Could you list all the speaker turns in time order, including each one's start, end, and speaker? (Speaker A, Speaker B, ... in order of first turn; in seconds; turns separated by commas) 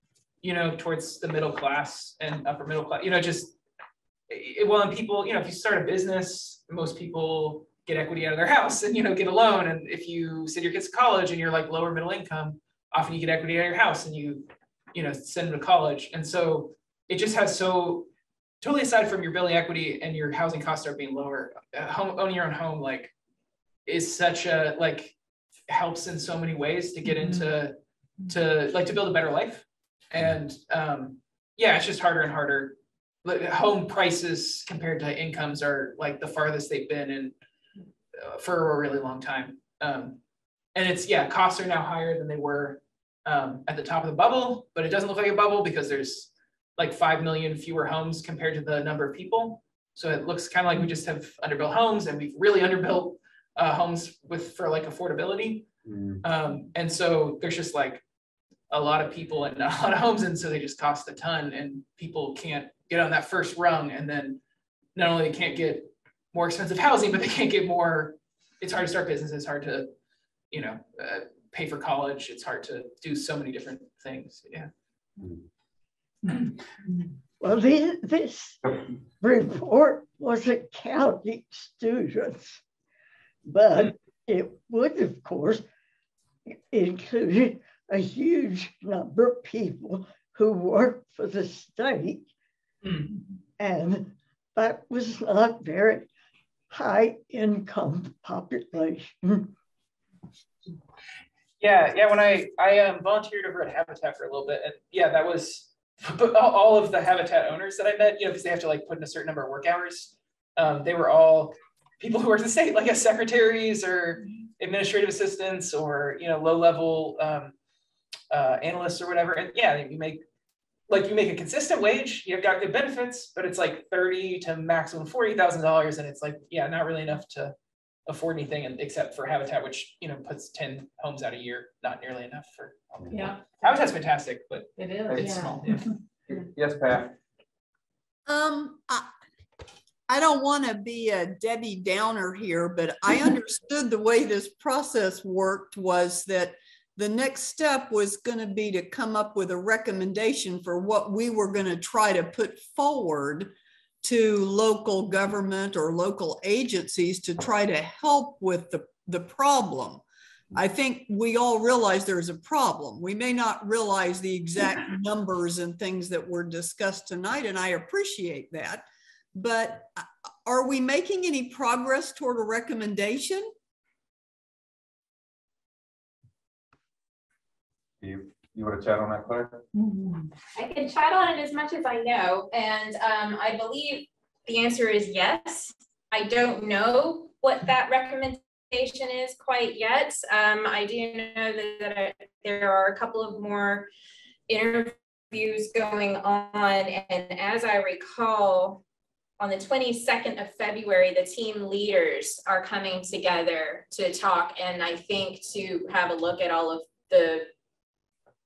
Speaker A: 0.4-3.6, Speaker A: 4.3-18.1, Speaker A: 18.6-23.1, Speaker A: 23.9-25.2, Speaker A: 25.7-27.8, Speaker B: 27.2-27.4, Speaker A: 28.3-37.4, Speaker A: 38.1-40.2, Speaker A: 40.8-55.7, Speaker C: 55.9-56.2, Speaker A: 56.2-58.0, Speaker A: 58.7-64.4, Speaker A: 65.0-69.9, Speaker A: 70.5-74.7, Speaker D: 77.4-82.6, Speaker D: 83.5-85.6, Speaker D: 86.5-92.3, Speaker A: 92.8-93.1, Speaker D: 93.6-96.1, Speaker D: 96.7-99.5, Speaker A: 101.6-117.5, Speaker A: 118.3-120.2, Speaker A: 120.9-127.5, Speaker A: 128.1-135.9, Speaker C: 132.9-133.2, Speaker B: 133.1-133.5, Speaker B: 134.8-135.8, Speaker C: 135.1-135.6, Speaker C: 136.3-137.2, Speaker E: 138.3-139.1, Speaker E: 140.1-153.5, Speaker E: 154.0-173.5, Speaker C: 178.0-179.6, Speaker B: 179.8-180.3, Speaker F: 180.6-193.9, Speaker F: 194.5-198.8, Speaker F: 199.4-207.5